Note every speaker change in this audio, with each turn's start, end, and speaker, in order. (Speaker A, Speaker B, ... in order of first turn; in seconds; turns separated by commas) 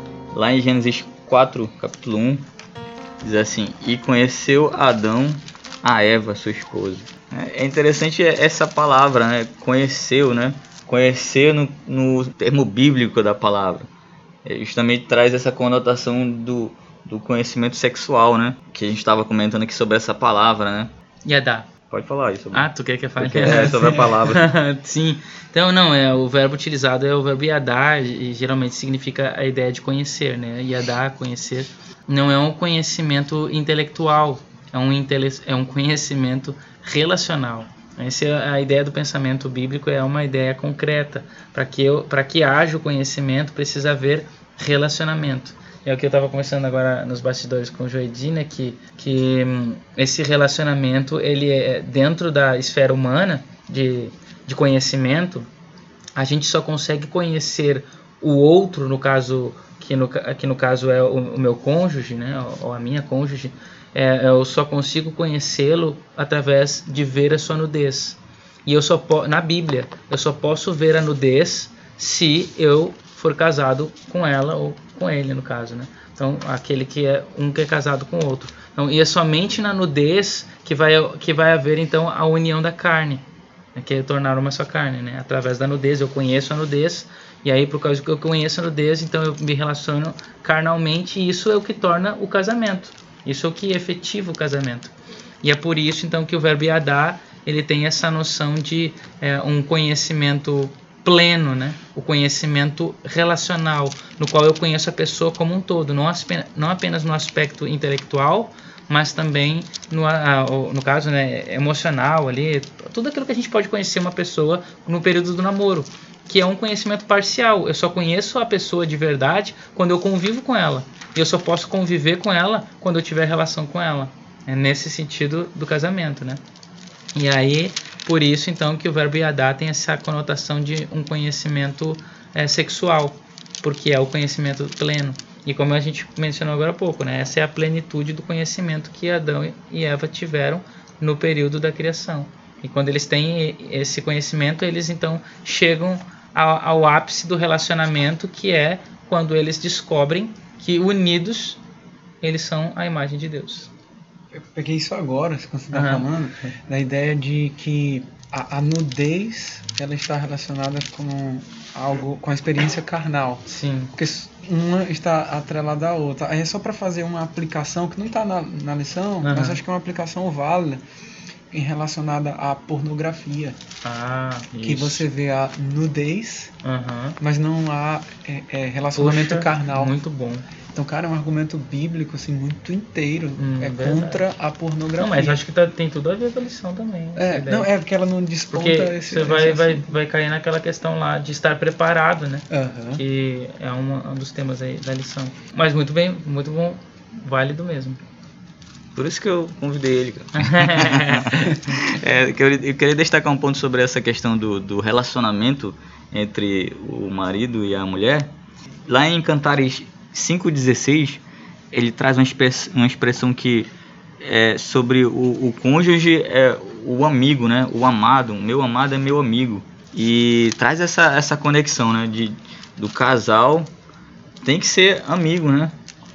Speaker A: 0.3-2.4, Speaker A: 3.2-13.9, Speaker A: 14.4-20.9, Speaker B: 21.2-21.7, Speaker A: 21.9-24.4, Speaker B: 22.5-55.5, Speaker C: 23.4-24.2, Speaker B: 56.1-83.2, Speaker B: 83.7-126.4, Speaker B: 127.1-151.6, Speaker B: 152.2-153.7, Speaker C: 154.3-170.8, Speaker B: 155.7-156.1, Speaker B: 163.5-163.9, Speaker B: 169.2-169.6, Speaker C: 171.5-173.6, Speaker B: 173.8-174.8, Speaker C: 174.6-176.5, Speaker B: 176.6-177.2, Speaker C: 177.2-179.9, Speaker B: 178.9-180.4, Speaker C: 180.7-185.4, Speaker B: 183.4-184.2, Speaker B: 185.0-187.7, Speaker C: 187.1-189.9, Speaker B: 188.5-198.0, Speaker C: 192.5-193.0, Speaker A: 198.9-208.3, Speaker B: 200.4-201.5, Speaker A: 208.9-211.2, Speaker A: 211.7-213.7, Speaker A: 214.2-223.7, Speaker A: 224.4-225.7